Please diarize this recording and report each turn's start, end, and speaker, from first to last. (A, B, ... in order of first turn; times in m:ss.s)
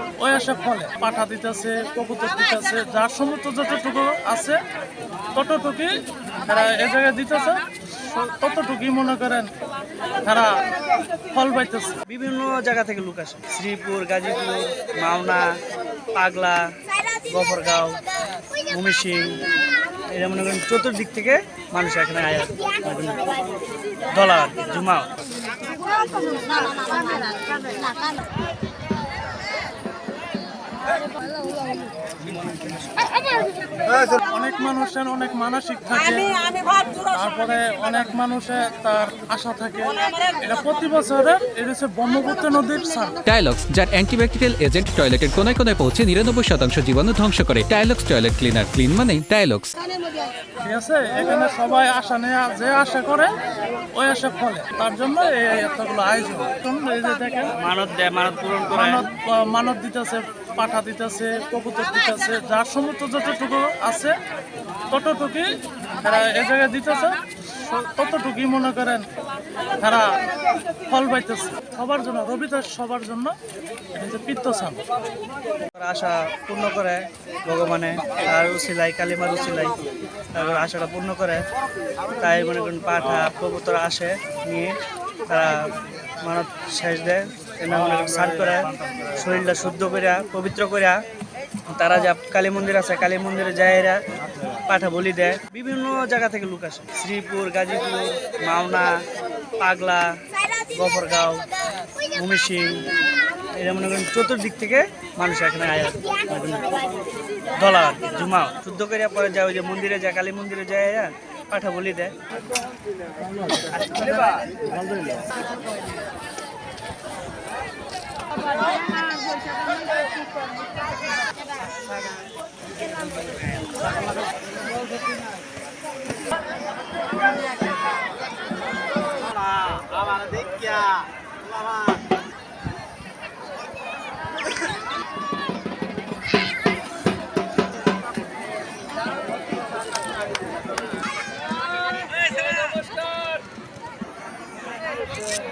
0:00.2-0:04.6 A
0:05.3-0:09.5 A
0:10.2-0:10.6 A
0:11.3-0:12.0 A
0:12.0-0:15.5 B
0:16.1-0:18.0 B
0:18.7-0:19.4 B
0:20.1-0:23.4 B
0:24.1-0:25.1 B
0:34.2-0:43.2 A
0:43.2-0:49.7 C
0:50.6-0:53.3 A
0:53.9-0:57.5 A
0:57.6-0:59.1 B
0:58.7-1:04.2 A
1:04.9-1:09.1 A
1:09.8-1:10.2 A
1:10.9-1:13.3 A
1:13.9-1:14.8 A
1:15.7-1:19.8 B
1:20.3-1:21.4 B
1:22.2-1:24.7 B
1:25.3-1:25.7 B
1:26.2-1:31.0 B
1:31.7-1:34.0 B
1:34.7-1:38.9 B
1:39.6-1:40.1 B
1:40.6-1:41.4 B
1:42.0-1:42.9 B
1:43.6-1:46.8 B
1:47.6-1:52.1 B
1:53.6-1:54.7 B